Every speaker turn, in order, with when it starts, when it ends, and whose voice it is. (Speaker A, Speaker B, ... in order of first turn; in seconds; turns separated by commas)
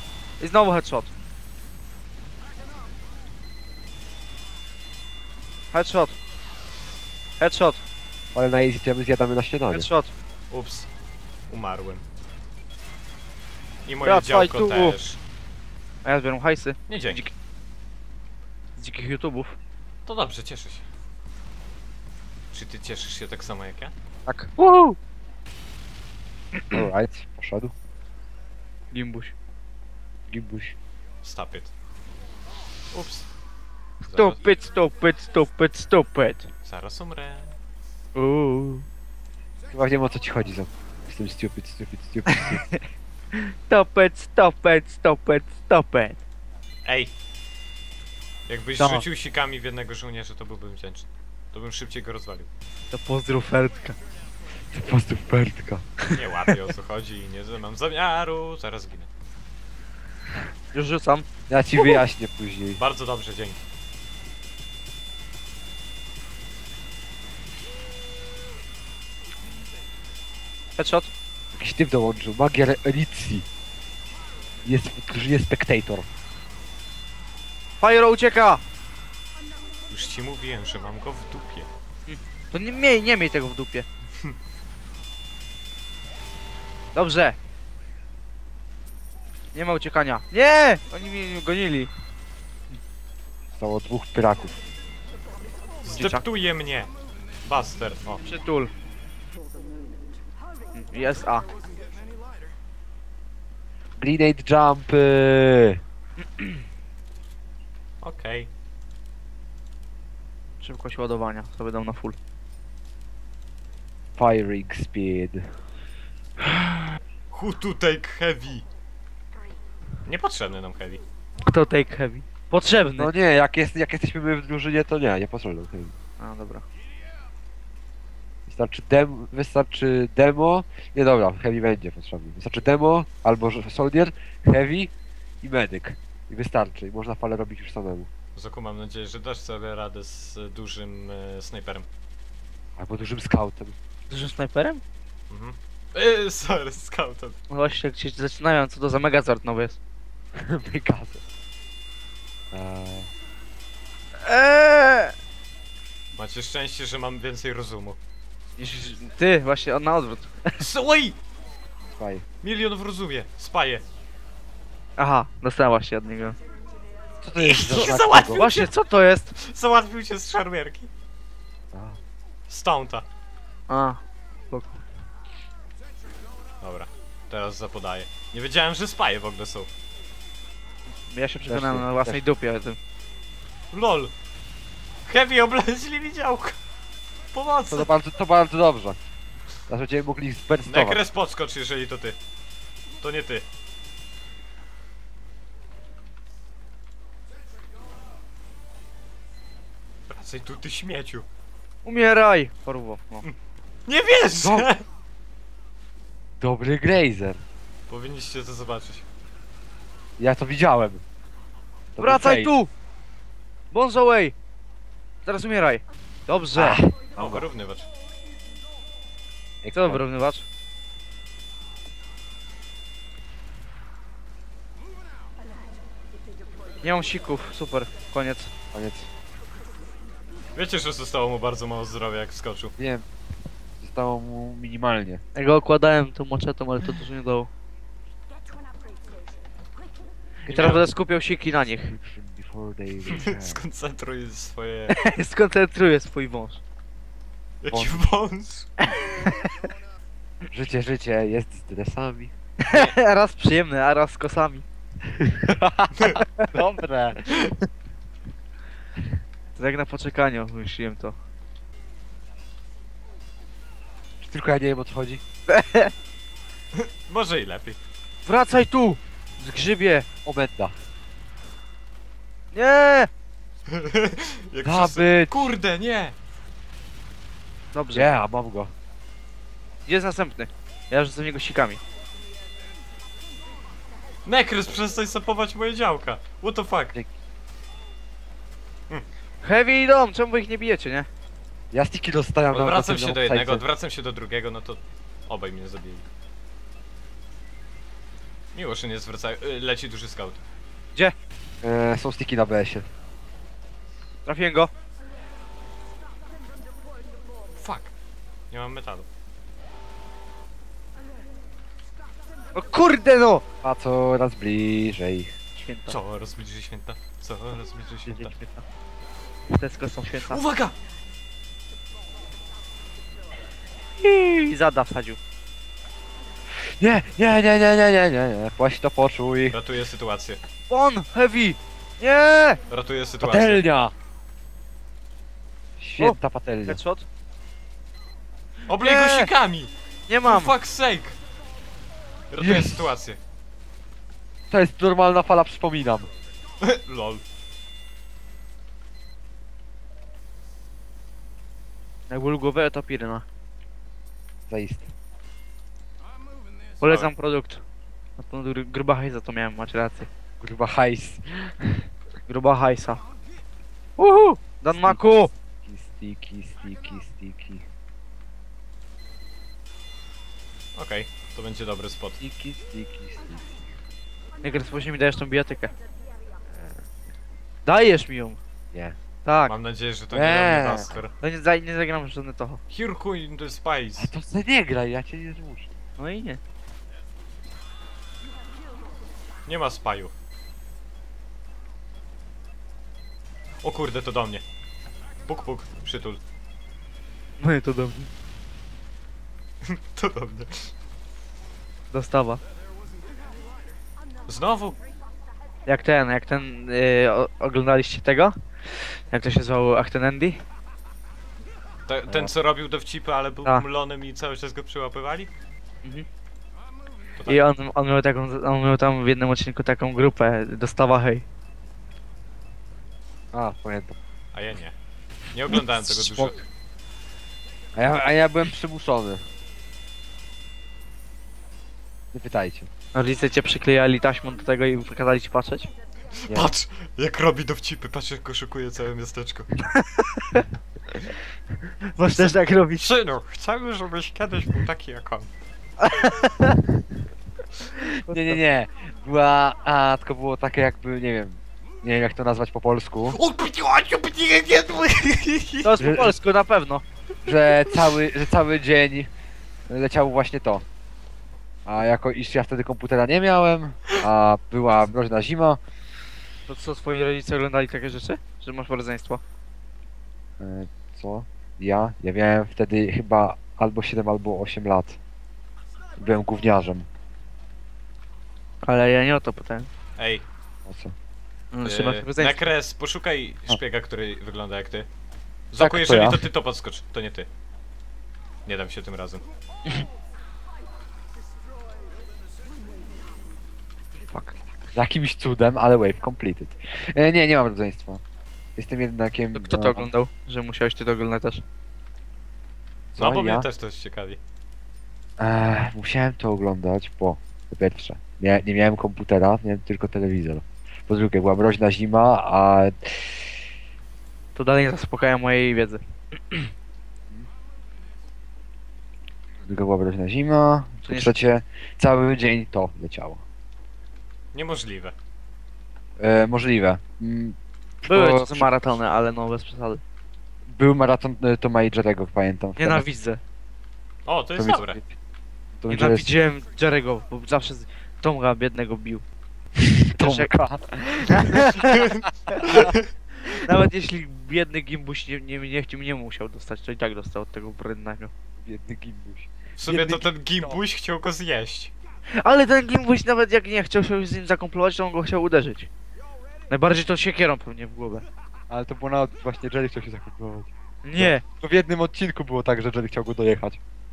Speaker A: 0.4-1.1, Speaker A: 5.7-6.2, Speaker A: 7.4-7.8, Speaker B: 8.3-9.9, Speaker A: 9.7-10.1, Speaker C: 10.5-10.9, Speaker C: 11.5-12.0, Speaker C: 13.9-15.2, Speaker A: 14.0-15.0, Speaker A: 16.1-17.3, Speaker C: 16.9-17.2, Speaker A: 18.8-19.6, Speaker C: 20.1-20.9, Speaker C: 22.5-23.9, Speaker A: 24.3-25.0, Speaker B: 26.7-27.7, Speaker A: 28.9-29.4, Speaker B: 30.3-30.8, Speaker C: 31.2-31.7, Speaker C: 32.9-33.3, Speaker A: 34.0-36.5, Speaker C: 34.1-34.4, Speaker C: 36.6-37.5, Speaker A: 38.1-38.9, Speaker B: 39.7-42.7, Speaker A: 42.3-42.8, Speaker A: 43.3-46.2, Speaker C: 46.9-47.1, Speaker C: 48.5-52.5, Speaker A: 48.8-49.0, Speaker A: 52.9-54.0, Speaker B: 54.7-56.2, Speaker C: 56.1-59.1, Speaker A: 60.7-61.3, Speaker B: 61.5-62.8, Speaker C: 62.8-63.6, Speaker A: 70.8-71.1, Speaker B: 71.5-73.5, Speaker B: 74.6-76.1, Speaker A: 77.8-78.6, Speaker C: 79.9-81.7, Speaker A: 82.1-83.9, Speaker A: 87.0-87.4, Speaker A: 89.5-91.9, Speaker B: 93.5-94.6, Speaker C: 95.8-96.9, Speaker A: 96.0-96.2, Speaker C: 97.5-98.2, Speaker A: 98.2-98.7, Speaker A: 100.8-101.5, Speaker B: 104.0-105.8, Speaker C: 108.0-108.5, Speaker A: 110.6-112.2, Speaker B: 114.2-115.6, Speaker C: 117.3-118.7, Speaker C: 120.0-121.0, Speaker A: 121.4-123.1, Speaker B: 123.0-126.0, Speaker A: 126.2-126.7, Speaker B: 128.5-138.1, Speaker C: 138.3-141.9, Speaker B: 142.8-143.8, Speaker A: 144.1-144.8, Speaker C: 145.3-147.4, Speaker A: 147.5-149.8, Speaker B: 150.3-151.2, Speaker B: 152.5-153.1, Speaker A: 154.2-155.2, Speaker C: 156.1-158.0, Speaker A: 158.6-160.6, Speaker C: 160.6-161.2, Speaker B: 161.9-162.2, Speaker C: 162.4-163.8, Speaker A: 165.0-166.4, Speaker B: 167.2-168.5, Speaker C: 167.4-168.7, Speaker A: 167.7-169.4, Speaker C: 169.4-170.9, Speaker B: 171.7-172.0, Speaker C: 172.5-173.1, Speaker A: 173.7-174.8, Speaker C: 176.6-179.7, Speaker A: 181.1-182.8, Speaker B: 181.5-182.2, Speaker C: 183.7-184.1, Speaker C: 185.1-186.6, Speaker C: 187.3-187.9, Speaker B: 187.7-189.0, Speaker B: 189.7-191.0, Speaker C: 190.7-192.2, Speaker C: 193.0-193.5, Speaker C: 200.1-201.3, Speaker A: 201.8-203.3, Speaker C: 203.9-204.8, Speaker B: 204.3-204.7, Speaker B: 206.4-207.4, Speaker C: 207.9-209.1, Speaker B: 210.2-211.0, Speaker B: 211.9-212.5, Speaker A: 212.0-212.7, Speaker A: 213.7-214.3, Speaker A: 215.3-216.8, Speaker B: 216.6-217.4, Speaker C: 217.2-217.9, Speaker B: 219.6-220.0, Speaker A: 219.7-220.4, Speaker A: 226.8-228.5, Speaker B: 228.7-229.1, Speaker C: 230.6-232.7, Speaker B: 232.8-233.1, Speaker B: 233.8-235.2, Speaker A: 235.3-237.5, Speaker A: 240.4-242.0, Speaker C: 240.5-240.9, Speaker B: 241.9-243.6, Speaker C: 243.1-245.0, Speaker A: 244.9-246.6, Speaker C: 247.6-248.7, Speaker B: 247.7-248.0, Speaker A: 248.8-249.6, Speaker B: 250.5-252.3, Speaker A: 252.6-254.7, Speaker B: 255.1-257.5, Speaker C: 256.0-256.2, Speaker A: 256.2-256.5, Speaker A: 259.6-261.2, Speaker B: 264.2-265.2, Speaker A: 265.5-265.9, Speaker C: 266.7-267.8, Speaker A: 268.3-270.1, Speaker B: 270.2-270.7, Speaker A: 272.5-273.1, Speaker C: 273.7-276.2, Speaker B: 274.6-275.5, Speaker A: 277.7-278.1, Speaker B: 277.9-278.7, Speaker A: 279.9-281.8, Speaker C: 284.3-286.9, Speaker A: 289.4-291.1, Speaker B: 291.7-293.6, Speaker C: 292.5-296.1, Speaker C: 298.5-300.4, Speaker B: 301.6-302.9, Speaker A: 304.3-304.7, Speaker C: 307.6-307.9, Speaker C: 308.5-309.1, Speaker A: 312.6-313.5, Speaker B: 313.6-315.3, Speaker A: 315.6-316.0, Speaker C: 315.9-318.4, Speaker A: 318.1-318.6, Speaker A: 319.5-320.4, Speaker C: 320.1-320.8, Speaker A: 324.0-325.2, Speaker B: 326.6-329.6, Speaker C: 329.5-330.4, Speaker A: 330.7-332.6, Speaker C: 332.7-333.6, Speaker B: 333.2-333.9, Speaker B: 335.8-336.8, Speaker A: 336.0-337.1, Speaker C: 338.7-339.7, Speaker A: 338.8-339.3, Speaker A: 340.1-340.5, Speaker C: 340.2-341.2, Speaker C: 342.3-343.2, Speaker B: 342.4-342.9, Speaker B: 344.5-346.1, Speaker C: 346.6-347.2, Speaker A: 352.1-353.2, Speaker B: 354.5-354.9, Speaker C: 356.8-357.1, Speaker A: 356.8-357.6, Speaker A: 358.2-360.1, Speaker B: 360.4-361.9, Speaker A: 362.3-363.0, Speaker A: 364.0-365.3, Speaker B: 364.7-365.0, Speaker B: 365.6-367.7, Speaker C: 370.8-372.2, Speaker B: 372.2-373.5, Speaker A: 374.4-375.7, Speaker B: 376.5-376.8, Speaker A: 377.7-378.4, Speaker A: 379.2-379.5, Speaker C: 379.5-381.1, Speaker B: 380.1-380.9, Speaker A: 381.2-382.6, Speaker C: 382.7-384.1, Speaker B: 384.0-385.7, Speaker A: 386.0-386.4, Speaker C: 389.5-390.1, Speaker C: 393.6-394.4, Speaker C: 395.3-396.2, Speaker A: 397.4-398.1, Speaker C: 399.6-400.7, Speaker A: 401.9-402.4, Speaker C: 404.3-404.8, Speaker A: 405.7-410.4, Speaker C: 411.9-415.3, Speaker C: 417.2-417.4, Speaker A: 417.3-421.2, Speaker B: 423.3-424.0, Speaker C: 424.3-424.8, Speaker C: 425.3-426.4, Speaker A: 425.8-426.4, Speaker B: 427.8-429.2, Speaker B: 432.1-432.7, Speaker A: 432.9-435.7, Speaker C: 436.2-439.5, Speaker A: 439.7-440.5, Speaker A: 441.9-442.9, Speaker C: 442.1-445.3, Speaker A: 445.8-446.6, Speaker A: 447.8-448.4, Speaker B: 447.8-453.2, Speaker C: 453.1-455.7, Speaker A: 455.6-456.8, Speaker B: 455.8-456.1, Speaker B: 457.2-459.1, Speaker B: 459.7-460.7, Speaker B: 461.7-465.6, Speaker A: 466.5-469.2, Speaker B: 470.4-475.0, Speaker B: 476.0-476.9, Speaker A: 478.6-479.7, Speaker C: 480.0-480.3, Speaker B: 480.7-480.9, Speaker A: 481.5-482.5, Speaker C: 481.6-484.9, Speaker C: 485.5-487.3, Speaker B: 485.6-486.2, Speaker C: 488.5-489.2, Speaker B: 494.8-498.0, Speaker B: 498.6-499.9, Speaker A: 499.4-501.4, Speaker B: 502.9-503.5, Speaker C: 503.0-504.2, Speaker B: 505.2-513.4, Speaker A: 514.4-516.5, Speaker B: 519.4-523.2, Speaker A: 520.8-521.1, Speaker C: 524.3-525.0, Speaker B: 526.0-528.5, Speaker A: 527.9-529.8, Speaker B: 530.5-532.8, Speaker A: 532.6-533.2, Speaker C: 534.1-534.8, Speaker B: 534.4-535.0, Speaker B: 535.6-536.1, Speaker A: 535.7-539.0, Speaker B: 539.6-541.6, Speaker A: 539.9-540.3, Speaker A: 541.1-548.1, Speaker C: 541.8-542.9, Speaker B: 548.4-550.6, Speaker C: 549.6-551.7, Speaker A: 552.1-555.7, Speaker A: 556.5-558.1, Speaker B: 558.5-563.6, Speaker A: 560.8-561.2